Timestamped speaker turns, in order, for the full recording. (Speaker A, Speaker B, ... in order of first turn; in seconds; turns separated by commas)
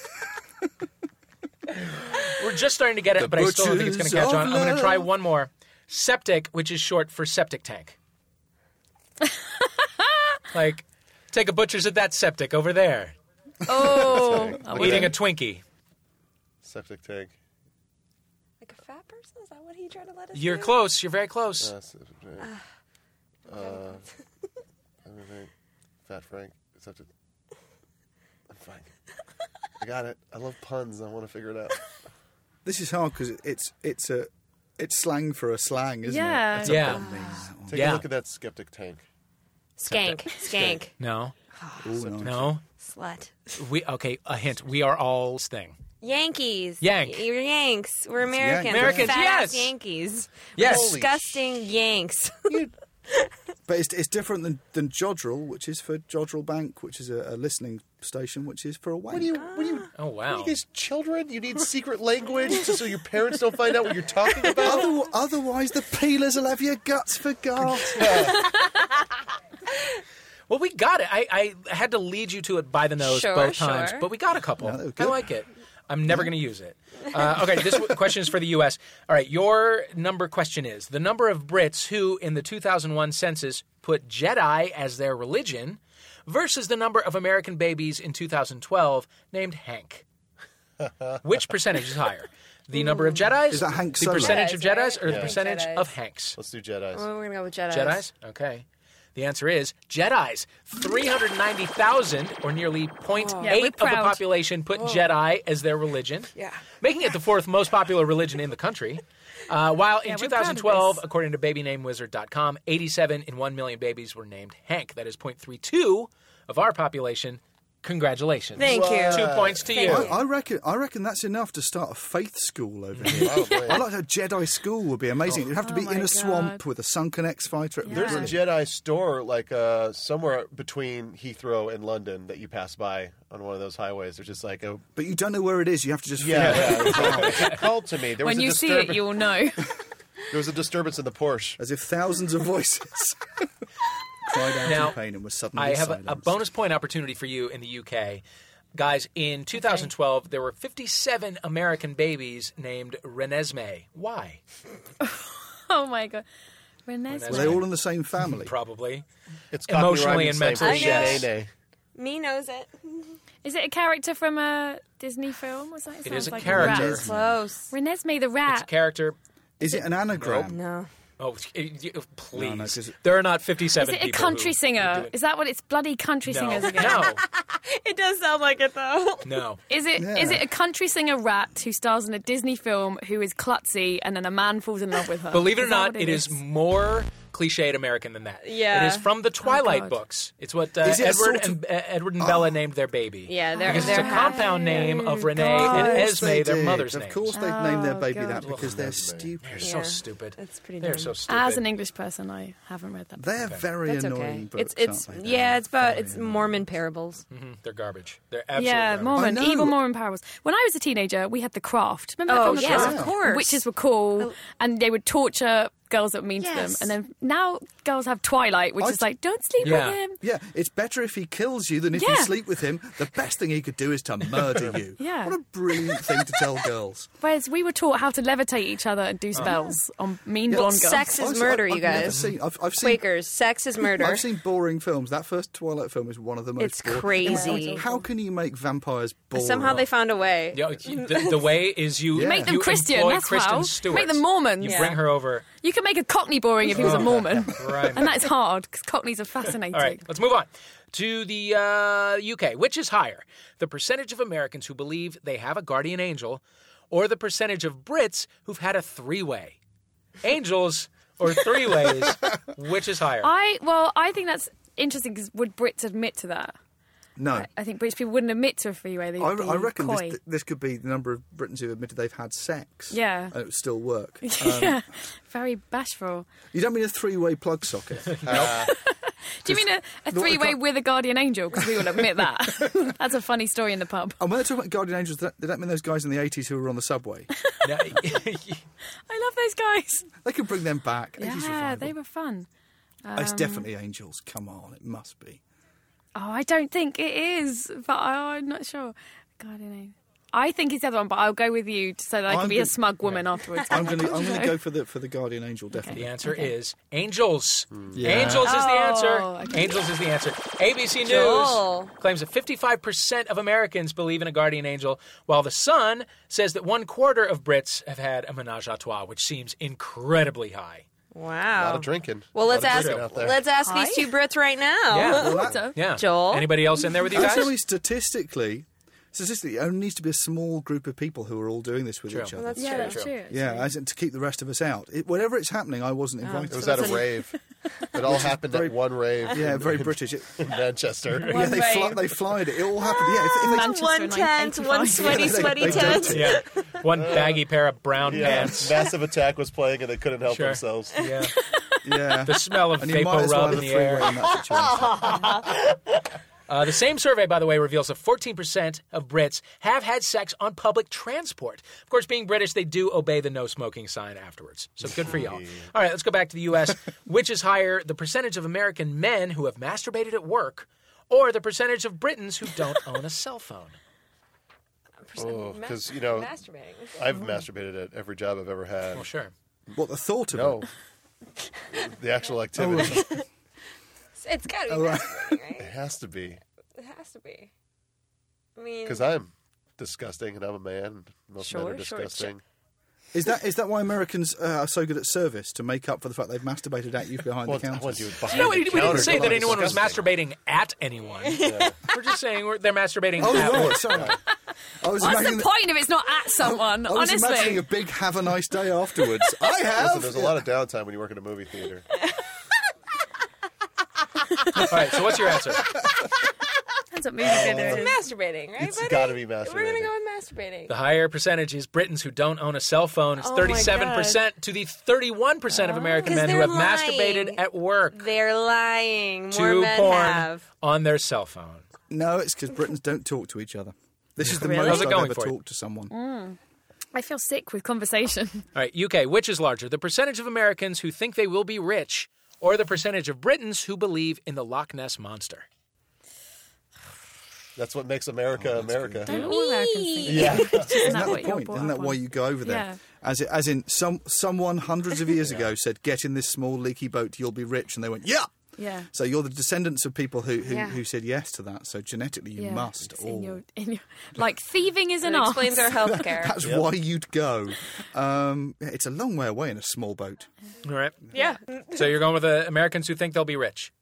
Speaker A: 2.3-8.0, Speaker B: 3.1-5.1, Speaker A: 10.5-13.2, Speaker C: 13.7-15.2, Speaker B: 13.8-14.3, Speaker D: 14.1-15.1, Speaker A: 14.7-15.6, Speaker D: 16.6-17.3, Speaker E: 18.6-20.8, Speaker A: 20.3-21.7, Speaker D: 21.6-22.5, Speaker D: 23.5-24.0, Speaker E: 23.6-24.0, Speaker D: 25.1-25.5, Speaker D: 26.1-27.1, Speaker D: 28.5-28.9, Speaker D: 29.8-31.9, Speaker B: 32.6-38.0, Speaker C: 36.1-36.8, Speaker A: 36.6-37.0, Speaker E: 37.0-37.5, Speaker D: 37.7-39.0, Speaker A: 37.7-38.1, Speaker E: 39.8-40.9, Speaker D: 39.9-40.9, Speaker A: 41.0-41.3, Speaker E: 41.6-41.9, Speaker B: 41.8-42.6, Speaker A: 42.2-42.6, Speaker E: 42.8-43.6, Speaker A: 43.6-45.8, Speaker E: 46.0-52.6, Speaker A: 46.8-47.3, Speaker B: 48.3-49.1, Speaker A: 48.7-49.7, Speaker D: 48.8-49.1, Speaker A: 50.5-51.0, Speaker D: 50.6-51.4, Speaker B: 53.7-59.5, Speaker D: 59.1-64.9, Speaker E: 59.5-59.9, Speaker A: 60.0-60.5, Speaker B: 64.6-68.4, Speaker D: 68.0-68.4, Speaker A: 70.5-90.0, Speaker E: 73.0-74.1, Speaker B: 74.6-75.3, Speaker A: 91.2-96.4, Speaker E: 92.8-93.2, Speaker B: 93.5-94.4, Speaker E: 94.2-95.9, Speaker D: 95.0-95.4, Speaker D: 96.4-97.1, Speaker E: 96.9-98.0, Speaker A: 97.7-120.1, Speaker E: 103.1-103.6, Speaker C: 103.4-104.3, Speaker E: 104.7-105.1, Speaker E: 106.3-106.6, Speaker C: 110.0-111.0, Speaker E: 118.6-119.5, Speaker D: 118.6-120.1, Speaker C: 119.7-120.1, Speaker B: 119.8-128.5, Speaker D: 123.1-123.9, Speaker C: 123.3-123.8, Speaker C: 125.6-126.6, Speaker C: 127.8-128.3, Speaker D: 127.9-134.9, Speaker A: 127.9-128.3, Speaker B: 135.0-137.6, Speaker D: 136.2-139.3, Speaker A: 136.3-137.6, Speaker C: 138.2-139.6, Speaker D: 140.3-141.6, Speaker B: 141.6-143.5, Speaker B: 144.2-146.4, Speaker A: 144.7-145.0, Speaker A: 145.6-148.2, Speaker A: 148.8-154.4, Speaker C: 155.0-156.3, Speaker C: 156.9-157.7, Speaker A: 157.1-157.7, Speaker B: 157.3-158.5, Speaker A: 158.3-159.1, Speaker D: 159.5-161.5, Speaker A: 159.7-161.3, Speaker E: 160.6-161.3, Speaker E: 162.0-163.2, Speaker C: 163.4-167.1, Speaker A: 166.0-167.1, Speaker B: 166.4-167.4, Speaker E: 167.1-167.7, Speaker C: 167.7-168.7, Speaker A: 168.5-169.2, Speaker B: 169.6-170.6, Speaker A: 170.2-170.4, Speaker E: 170.3-170.9, Speaker A: 171.2-175.1, Speaker B: 172.3-173.0, Speaker C: 173.8-177.1, Speaker A: 176.3-177.2, Speaker E: 176.9-179.4, Speaker A: 179.2-179.6, Speaker C: 179.7-186.4, Speaker B: 180.0-180.4, Speaker A: 185.3-197.3, Speaker E: 188.4-189.1, Speaker C: 189.4-190.0, Speaker B: 190.8-191.6, Speaker B: 192.2-192.6, Speaker E: 193.3-195.8, Speaker C: 193.5-196.1, Speaker B: 195.4-199.7, Speaker C: 197.3-198.5, Speaker D: 198.4-199.3, Speaker A: 198.4-198.7, Speaker A: 199.4-201.7, Speaker E: 199.6-201.2, Speaker C: 201.3-203.3, Speaker B: 203.2-206.5, Speaker E: 203.8-207.2, Speaker A: 207.3-209.2, Speaker C: 208.6-220.2, Speaker B: 209.1-209.8, Speaker E: 212.3-213.7, Speaker B: 212.4-213.2, Speaker E: 216.4-216.9, Speaker B: 218.8-227.1, Speaker A: 219.6-220.0, Speaker C: 221.9-222.3, Speaker C: 225.0-225.4, Speaker C: 227.2-231.2, Speaker B: 230.5-233.1, Speaker E: 230.5-232.2, Speaker E: 232.8-234.3, Speaker B: 233.9-239.9, Speaker E: 236.6-237.8, Speaker C: 237.2-238.0, Speaker E: 239.3-241.4, Speaker A: 240.5-245.4, Speaker B: 242.1-242.6, Speaker C: 242.1-250.1, Speaker E: 244.6-245.0, Speaker B: 246.7-247.5, Speaker A: 246.7-248.2, Speaker A: 249.7-259.6, Speaker A: 260.2-263.3, Speaker C: 263.2-266.6, Speaker B: 267.2-267.5, Speaker C: 267.4-270.2, Speaker B: 269.2-274.8, Speaker C: 272.9-273.4, Speaker C: 274.2-276.3, Speaker B: 276.5-278.6, Speaker A: 278.2-278.7, Speaker D: 278.2-278.7, Speaker C: 278.7-284.2, Speaker B: 279.5-280.6, Speaker B: 281.6-282.7, Speaker B: 284.2-287.3, Speaker A: 287.6-288.6, Speaker C: 289.1-290.1, Speaker B: 290.2-292.0, Speaker C: 291.2-292.5, Speaker C: 293.1-293.7, Speaker B: 293.1-295.4, Speaker C: 296.1-304.6, Speaker B: 302.3-302.8, Speaker B: 303.7-306.0, Speaker C: 305.9-306.5, Speaker A: 305.9-320.9, Speaker D: 307.7-308.1, Speaker B: 307.9-308.5, Speaker C: 308.2-309.9, Speaker E: 311.0-311.9, Speaker E: 321.1-326.6, Speaker D: 321.6-323.5, Speaker A: 322.5-323.3, Speaker C: 323.6-324.1, Speaker A: 324.9-327.5, Speaker B: 325.1-325.7, Speaker C: 325.3-325.7, Speaker B: 327.1-337.2, Speaker A: 332.1-333.2, Speaker E: 332.4-333.1, Speaker C: 332.6-333.7, Speaker E: 336.2-337.2, Speaker D: 336.5-337.3, Speaker D: 337.9-341.4, Speaker B: 338.0-340.5, Speaker C: 341.3-342.1, Speaker B: 341.3-343.9, Speaker E: 342.8-346.4, Speaker C: 343.4-345.7, Speaker B: 345.0-346.4, Speaker A: 345.6-348.8, Speaker D: 346.9-347.4, Speaker D: 348.0-351.0, Speaker A: 350.3-351.4, Speaker B: 351.8-355.4, Speaker A: 352.3-354.1, Speaker E: 354.7-355.6, Speaker A: 356.5-373.8, Speaker D: 364.9-365.7, Speaker E: 375.1-377.2, Speaker D: 375.2-376.3, Speaker D: 376.9-379.1, Speaker A: 378.9-379.3, Speaker B: 379.8-380.7, Speaker D: 380.3-380.7, Speaker D: 381.7-383.2, Speaker B: 382.6-383.2, Speaker E: 382.8-383.2, Speaker E: 384.2-385.7, Speaker B: 384.7-385.4, Speaker D: 385.6-386.4, Speaker E: 386.8-387.5, Speaker E: 388.6-389.1, Speaker D: 388.9-392.4, Speaker E: 391.4-392.3, Speaker B: 393.1-399.7, Speaker D: 397.4-400.1, Speaker A: 398.3-404.1, Speaker E: 401.3-401.7, Speaker D: 401.4-401.8, Speaker B: 403.2-404.2, Speaker B: 404.8-405.5, Speaker C: 405.0-407.6, Speaker B: 406.4-410.5, Speaker D: 409.8-411.9, Speaker A: 414.6-415.7, Speaker C: 416.9-417.9, Speaker D: 417.2-417.9, Speaker E: 417.4-420.7, Speaker D: 418.6-419.9, Speaker A: 420.7-428.0, Speaker E: 423.2-424.2, Speaker E: 425.6-427.4, Speaker E: 427.9-430.4, Speaker A: 429.3-431.6, Speaker B: 431.9-435.9, Speaker A: 434.2-435.4, Speaker E: 434.3-435.0, Speaker C: 435.9-436.4, Speaker C: 436.9-438.4, Speaker A: 438.6-445.5, Speaker D: 447.6-449.2, Speaker B: 448.4-449.1, Speaker A: 448.9-449.3, Speaker C: 449.1-452.8, Speaker E: 449.1-450.8, Speaker D: 450.1-451.2, Speaker B: 450.3-458.3, Speaker D: 455.2-455.5, Speaker C: 458.6-458.9, Speaker B: 458.9-463.4, Speaker E: 460.5-460.8, Speaker C: 462.4-465.9, Speaker E: 465.0-466.4, Speaker B: 465.9-470.3, Speaker D: 466.4-466.7, Speaker A: 470.6-471.0, Speaker E: 471.1-471.9, Speaker A: 471.7-473.7